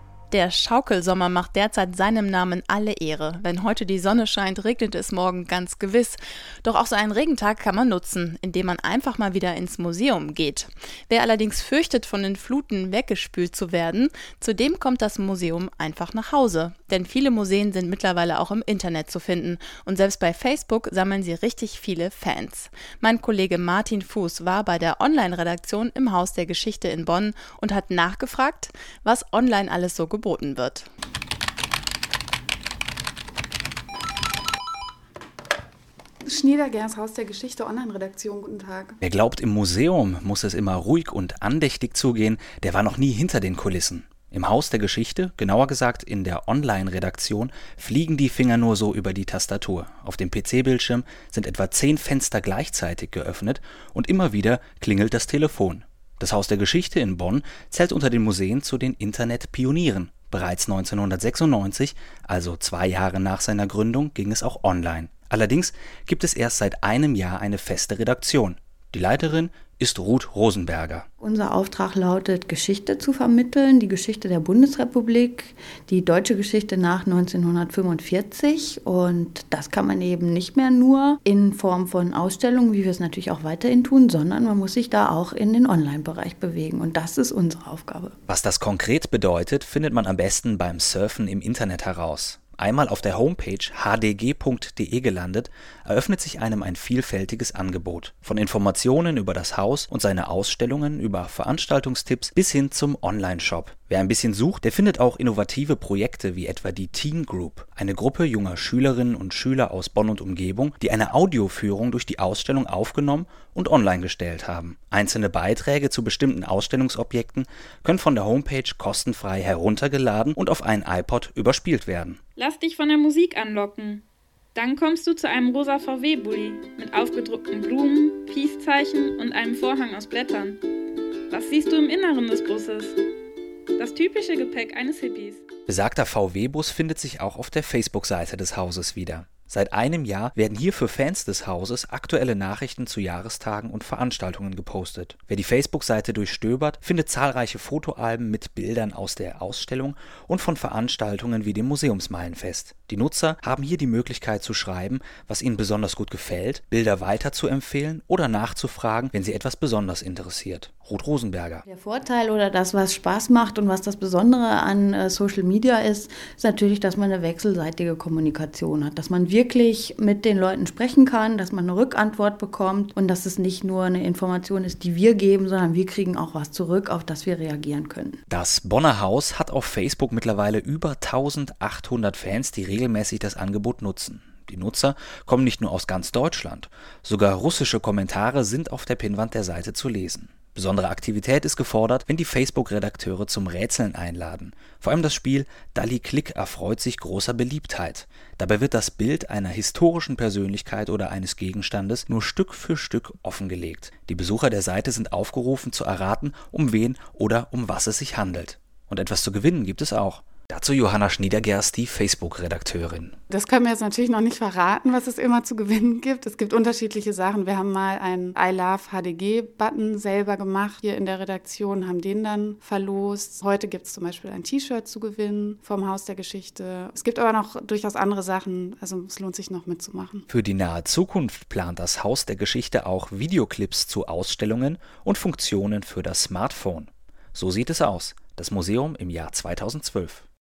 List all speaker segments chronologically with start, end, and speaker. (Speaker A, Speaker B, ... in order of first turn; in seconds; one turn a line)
Speaker A: 0.3-30.9
Speaker B: 36.2-39.0
Speaker C: 39.0-71.0
Speaker D: 71.2-88.1
Speaker C: 88.3-122.2
Speaker E: 122.4-124.0
Speaker E: 124.5-130.6
Speaker E: 131.3-133.0
Speaker E: 133.8-135.4
Speaker C: 135.7-161.6
Speaker D: 161.7-178.2
Speaker C: 178.3-213.2
Speaker B: 213.3-230.2
Speaker C: 230.3-240.2